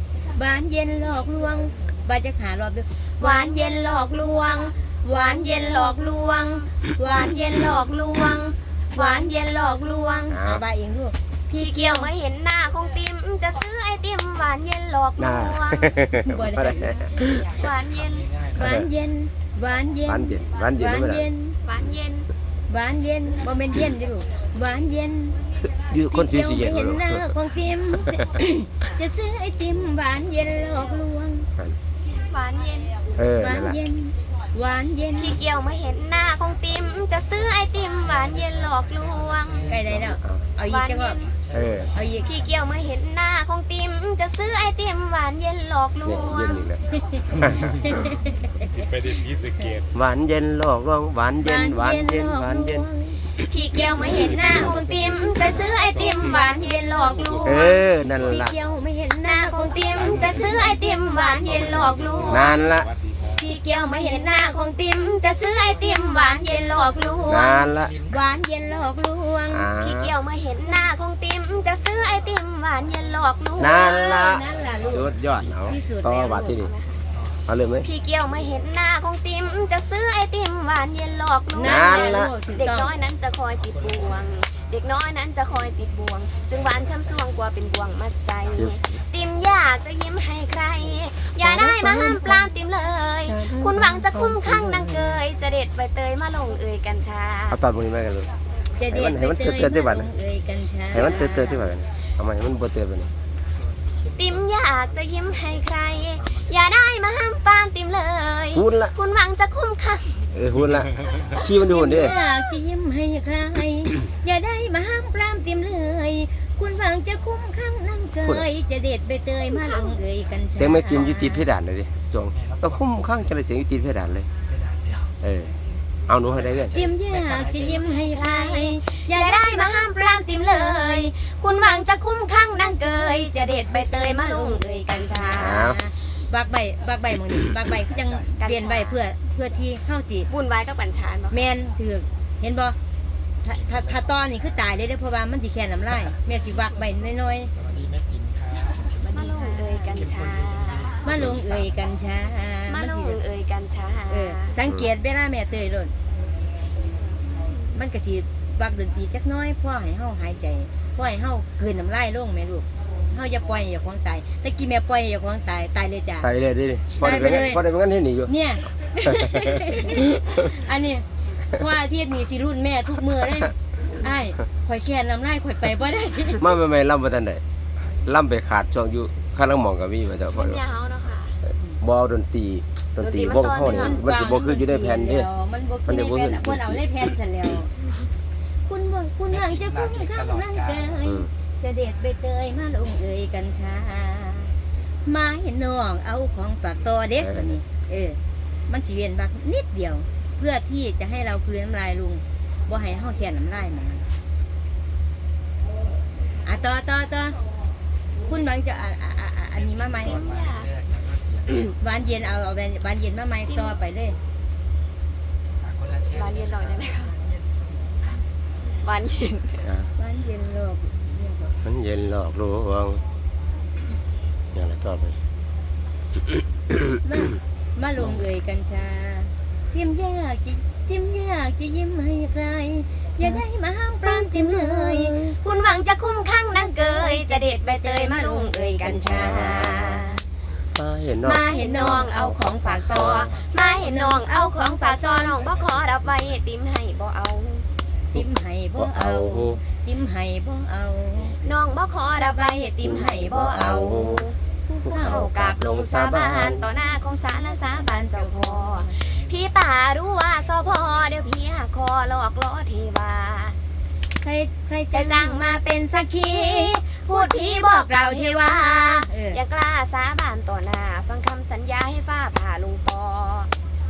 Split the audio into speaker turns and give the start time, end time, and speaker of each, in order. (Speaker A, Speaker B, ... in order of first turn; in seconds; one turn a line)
Speaker A: 0.3-3.9
Speaker B: 3.2-10.3
Speaker A: 5.0-7.7
Speaker A: 8.9-9.3
Speaker A: 10.3-12.1
Speaker C: 10.3-10.7
Speaker B: 11.5-16.0
Speaker C: 15.2-17.3
Speaker A: 16.2-17.6
Speaker B: 17.4-18.3
Speaker D: 17.5-18.8
Speaker A: 18.6-21.6
Speaker C: 18.6-18.9
Speaker C: 20.1-21.3
Speaker B: 21.6-22.3
Speaker A: 22.7-25.4
Speaker C: 25.7-27.4
Speaker A: 26.1-31.5
Speaker B: 32.2-33.0
Speaker C: 33.1-33.8
Speaker A: 33.4-35.4
Speaker B: 35.2-39.8
Speaker D: 37.4-40.1
Speaker A: 39.6-41.2
Speaker C: 39.9-40.4
Speaker B: 40.7-41.3
Speaker D: 41.1-42.9
Speaker C: 41.5-41.9
Speaker A: 42.0-42.3
Speaker B: 42.2-46.7
Speaker C: 46.0-46.8
Speaker A: 47.0-48.4
Speaker E: 49.1-49.6
Speaker C: 49.9-52.9
Speaker A: 51.4-53.3
Speaker B: 53.4-57.9
Speaker A: 54.0-55.6
Speaker E: 54.0-57.7
Speaker C: 57.4-58.5
Speaker A: 57.4-61.5
Speaker B: 59.2-62.6
Speaker E: 60.0-60.6
Speaker E: 61.4-63.2
Speaker A: 62.2-62.4
Speaker C: 62.2-62.9
Speaker B: 63.4-67.6
Speaker A: 63.4-64.8
Speaker C: 67.3-67.9
Speaker D: 67.5-68.3
Speaker A: 68.1-69.7
Speaker C: 69.5-70.1
Speaker B: 69.8-74.2
Speaker A: 73.6-76.6
Speaker C: 73.6-76.7
Speaker D: 74.5-75.8
Speaker B: 76.4-77.0
Speaker D: 77.1-77.4
Speaker C: 77.5-77.9
Speaker B: 77.8-97.6
Speaker A: 81.5-82.9
Speaker C: 81.6-82.3
Speaker D: 83.5-84.7
Speaker D: 86.5-87.4
Speaker D: 88.4-88.8
Speaker C: 88.6-88.8
Speaker C: 91.5-92.4
Speaker A: 91.7-92.2
Speaker C: 93.3-95.2
Speaker C: 97.5-98.3
Speaker A: 98.8-101.7
Speaker C: 98.9-100.1
Speaker C: 100.9-103.1
Speaker D: 103.5-106.7
Speaker B: 104.2-110.3
Speaker C: 108.5-108.9
Speaker C: 110.3-112.2
Speaker A: 111.7-121.5
Speaker C: 118.2-118.5
Speaker B: 119.5-120.0
Speaker C: 120.5-124.3
Speaker D: 122.3-122.8
Speaker D: 124.5-125.1
Speaker C: 125.2-125.5
Speaker C: 126.1-126.8
Speaker D: 126.2-127.9
Speaker A: 126.7-131.0
Speaker B: 127.8-135.8
Speaker A: 133.7-140.3
Speaker C: 135.4-135.8
Speaker D: 137.7-138.3
Speaker B: 138.4-139.0
Speaker B: 140.3-141.5
Speaker A: 141.3-142.8
Speaker A: 143.4-147.5
Speaker D: 143.5-144.7
Speaker D: 147.2-149.3
Speaker A: 149.0-149.9
Speaker B: 149.1-150.9
Speaker D: 149.8-151.8
Speaker A: 151.0-153.2
Speaker C: 151.1-151.4
Speaker B: 152.7-154.6
Speaker A: 154.1-155.9
Speaker B: 157.3-157.6
Speaker A: 157.7-166.3
Speaker C: 166.2-168.3
Speaker A: 167.0-167.6
Speaker A: 168.3-176.5
Speaker C: 169.1-169.8
Speaker C: 176.4-177.4
Speaker C: 178.1-180.6
Speaker B: 180.3-181.4
Speaker C: 181.8-185.3
Speaker B: 183.0-184.0
Speaker A: 183.7-187.7
Speaker C: 185.9-187.1
Speaker A: 188.7-194.5
Speaker D: 189.3-191.1
Speaker C: 191.0-191.3
Speaker A: 195.1-204.1
Speaker C: 197.2-197.6
Speaker A: 206.4-207.4
Speaker A: 208.3-210.2
Speaker D: 209.5-211.8
Speaker B: 210.0-210.7
Speaker A: 211.8-214.2
Speaker B: 213.5-213.8
Speaker D: 215.6-217.4
Speaker B: 216.1-217.2
Speaker B: 218.8-219.7
Speaker C: 219.6-219.9
Speaker A: 220.0-221.5
Speaker C: 221.6-223.0
Speaker C: 224.5-225.2
Speaker C: 226.7-227.0
Speaker A: 227.0-235.3
Speaker B: 234.1-240.2
Speaker A: 236.7-240.2
Speaker C: 239.2-239.7
Speaker C: 240.7-242.4
Speaker A: 241.2-245.3
Speaker B: 241.4-247.7
Speaker D: 243.0-243.7
Speaker D: 245.2-246.5
Speaker A: 248.1-251.4
Speaker C: 248.8-249.6
Speaker B: 251.4-254.4
Speaker A: 252.2-253.6
Speaker C: 252.8-254.3
Speaker A: 254.7-255.4
Speaker C: 254.8-256.7
Speaker B: 255.0-263.6
Speaker A: 257.2-259.1
Speaker D: 259.0-261.4
Speaker A: 264.2-269.4
Speaker B: 264.9-273.5